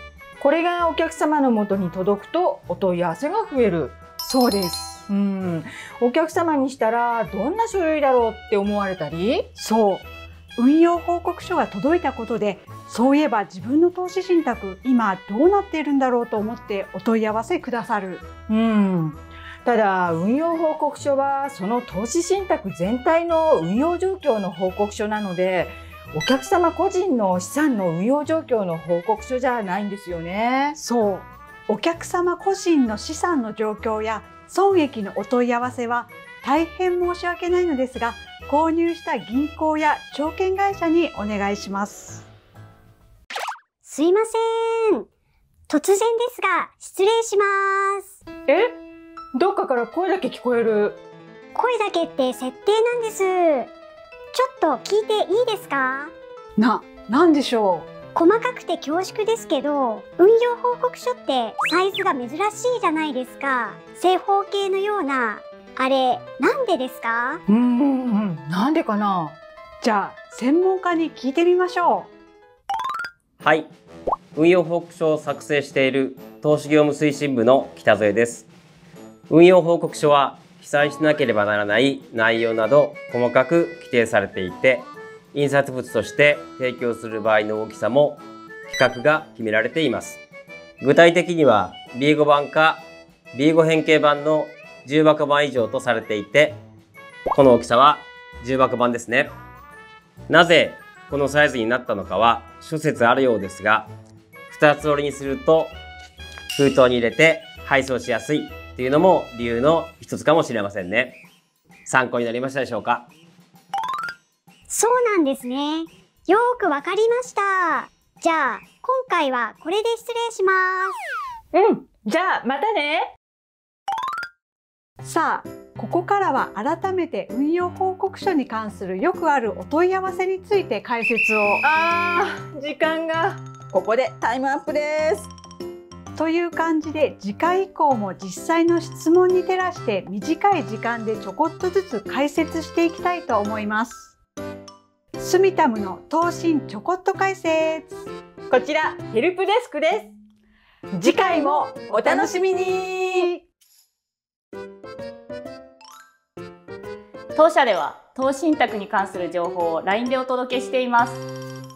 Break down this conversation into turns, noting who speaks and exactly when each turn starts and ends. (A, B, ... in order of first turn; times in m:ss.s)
0:00.4-0:04.0 A
0:04.2-0:05.0 B
0:05.1-0:09.5 A
0:09.6-0:18.3 B
0:18.5-0:30.8 A
0:30.8-0:42.3 B
0:43.8-0:45.1 C
0:45.7-0:48.1 C
0:48.5-0:48.7 A
0:49.3-0:51.0 A
0:51.6-0:53.7 C
0:54.3-0:56.1 C
0:56.6-0:57.9 B
0:58.2-1:07.4 C
1:07.5-1:09.4 A
1:09.8-1:12.1 B
1:13.4-1:13.7 D
1:14.4-1:18.5 D
1:19.3-1:30.2 D
1:30.8-1:36.6 D
1:37.3-1:39.3 D
1:40.3-1:43.9 D
1:44.5-1:45.8 D
1:46.5-1:51.2 D
1:51.9-1:53.1 D
1:54.7-2:01.0 C
2:01.5-2:03.1 A
2:05.0-2:11.6 B
2:11.6-2:15.3 A
2:16.2-2:24.2 B
2:25.2-2:28.1 B
2:28.5-2:30.1 A
2:30.9-2:33.3 A
2:31.0-2:32.5 B
2:37.4-2:41.2 E